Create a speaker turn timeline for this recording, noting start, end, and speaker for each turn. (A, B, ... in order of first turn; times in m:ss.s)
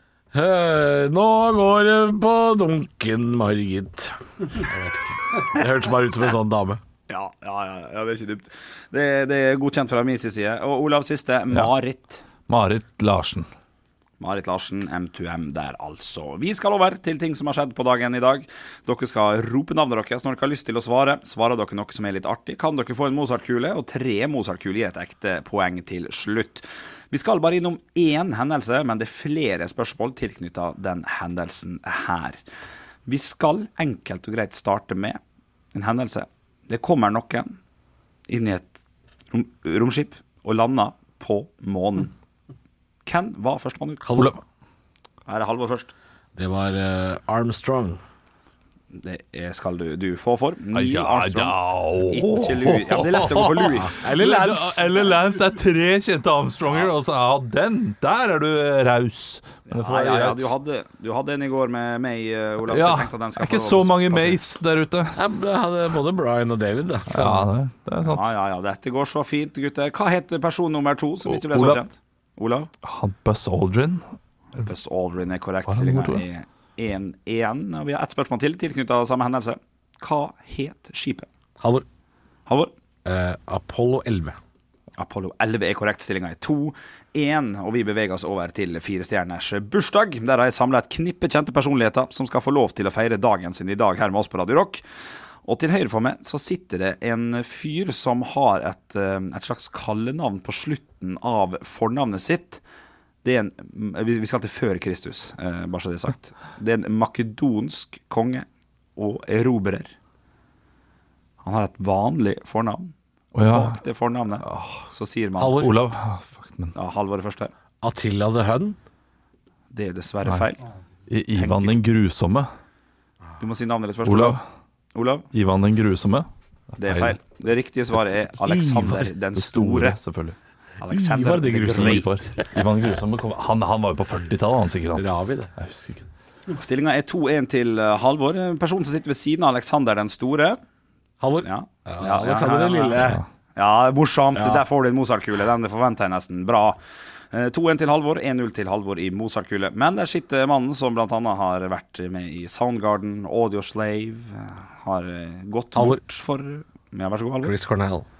0:00.3-0:06.8 A
0:07.1-0:12.2 B
0:12.5-0:13.5 C
0:14.2-0:32.4 B
0:33.1-0:35.2 B
0:35.7-0:37.6 B
0:38.3-0:38.8 B
0:39.3-0:42.1 B
0:43.1-0:44.1 B
0:44.0-0:44.3 A
0:44.2-0:44.4 C
0:45.3-0:45.9 B
0:46.4-0:48.0 A
0:48.9-0:54.0 B
0:50.7-1:00.5 C
0:53.8-0:54.9 A
0:56.7-0:56.9 B
0:59.7-1:04.4 B
1:02.6-1:05.2 C
1:05.2-1:07.5 A
1:07.1-1:08.3 C
1:08.0-1:12.7 B
1:11.2-1:11.8 C
1:12.8-1:14.0 C
1:14.6-1:21.3 B
1:15.7-1:16.2 C
1:21.6-1:21.8 A
1:23.0-1:24.4 A
1:25.0-1:34.8 B
1:35.5-1:42.6 B
1:43.2-1:48.4 B
1:49.0-1:49.9 B
1:51.4-1:52.9 B
1:53.4-1:53.8 C
1:53.5-1:55.6 B
1:54.4-1:54.9 C
1:55.4-1:55.8 A
1:55.6-1:56.8 C
1:56.7-1:57.5 B
1:57.8-1:58.8 A
1:59.7-2:00.6 B
2:01.1-2:02.5 C
2:01.4-2:01.8 B
2:03.4-2:04.4 B
2:04.0-2:04.4 C
2:04.9-2:05.3 B
2:05.3-2:07.2 C
2:06.8-2:10.0 B
2:08.4-2:10.4 C
2:10.8-2:12.1 B
2:10.9-2:12.5 A
2:11.7-2:15.0 C
2:14.9-2:15.5 A
2:15.6-2:16.1 C
2:16.5-2:20.6 B
2:21.2-2:23.2 A
2:21.4-2:23.0 B
2:23.6-2:26.8 B
2:24.4-2:24.6 A
2:27.3-2:37.5 B
2:35.8-2:36.0 A
2:37.4-2:38.1 A